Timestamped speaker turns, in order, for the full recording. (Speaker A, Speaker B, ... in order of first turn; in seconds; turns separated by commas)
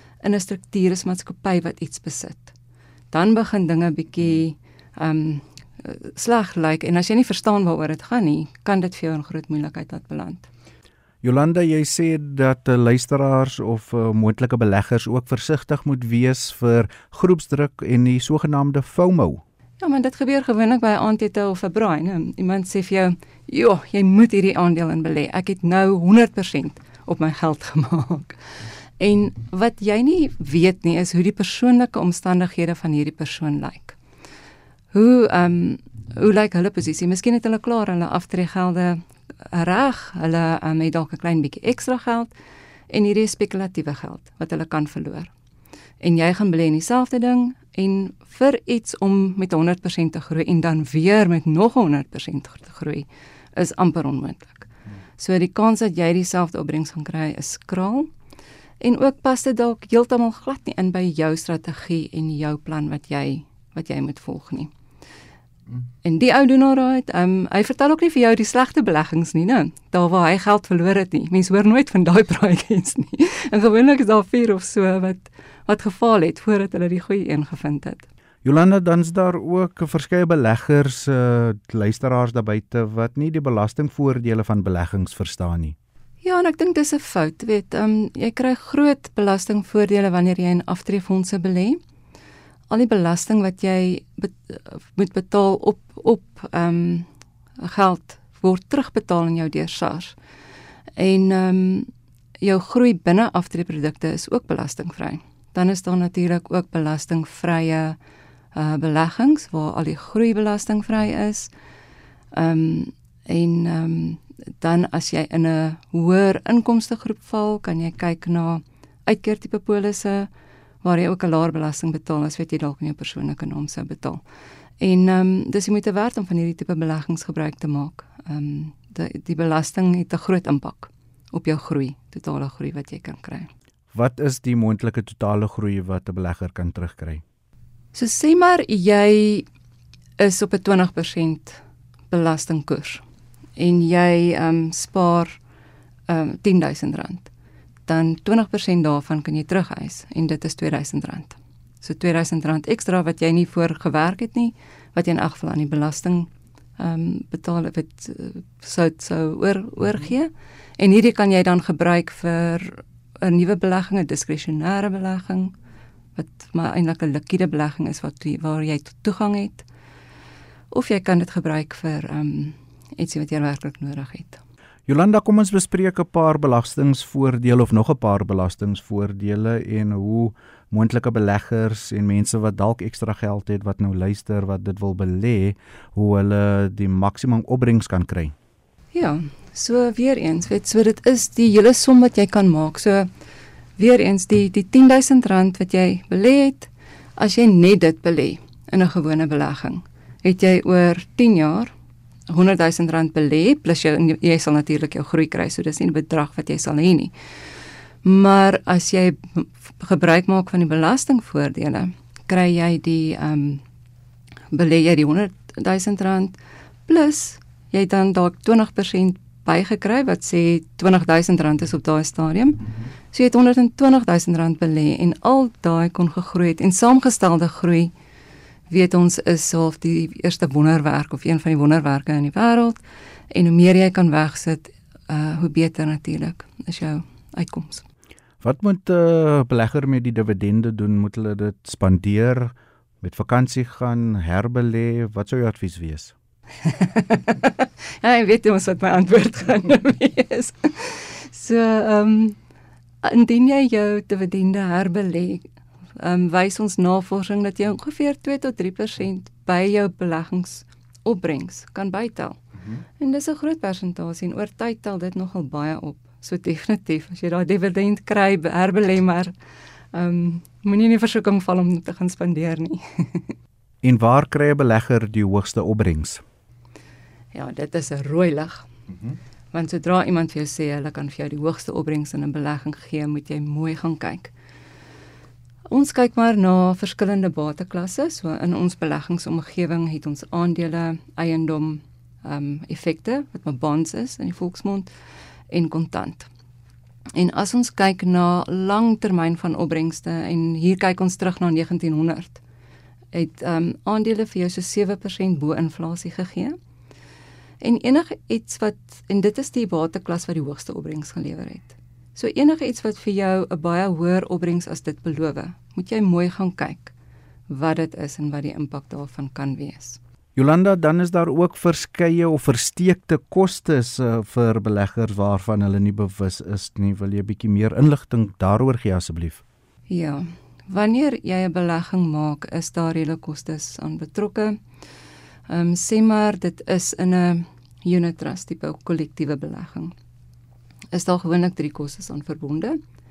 Speaker A: 0.2-2.5, Speaker A: 3.1-10.5, Speaker B: 11.2-19.4, Speaker A: 19.8-28.4, Speaker A: 29.0-34.0, Speaker A: 34.9-42.3, Speaker A: 42.9-45.3, Speaker A: 46.0-58.1, Speaker A: 58.8-64.7, Speaker A: 66.0-78.1, Speaker B: 78.4-85.8, Speaker A: 86.2-91.8, Speaker A: 92.7-97.1, Speaker A: 97.6-100.2, Speaker A: 101.0-101.9, Speaker A: 102.4-108.0, Speaker A: 108.5-111.5, Speaker A: 112.3-120.3, Speaker A: 120.8-124.2, Speaker A: 124.8-133.5, Speaker B: 133.9-137.2, Speaker A: 137.9-139.5, Speaker A: 140.2-143.0, Speaker A: 143.6-145.4, Speaker A: 146.1-147.3, Speaker A: 147.9-165.5, Speaker A: 166.2-169.7, Speaker A: 170.7-174.4, Speaker B: 174.9-188.3, Speaker A: 188.9-193.1, Speaker A: 193.8-201.7, Speaker A: 202.3-207.1, Speaker A: 208.0-213.6, Speaker A: 214.5-216.3, Speaker A: 216.9-227.9, Speaker A: 228.7-237.8, Speaker B: 238.4-246.1, Speaker A: 246.6-252.4, Speaker A: 253.0-255.4, Speaker A: 256.0-262.4, Speaker A: 263.0-269.3, Speaker A: 269.9-273.4, Speaker B: 273.8-276.2, Speaker A: 277.3-278.7, Speaker A: 279.5-284.3, Speaker A: 285.7-294.9, Speaker A: 295.5-296.3, Speaker A: 297.1-302.4, Speaker A: 303.1-306.6, Speaker A: 307.6-316.9, Speaker A: 317.5-320.0, Speaker B: 320.4-329.4, Speaker A: 329.9-334.6, Speaker A: 335.5-339.9, Speaker A: 340.9-342.8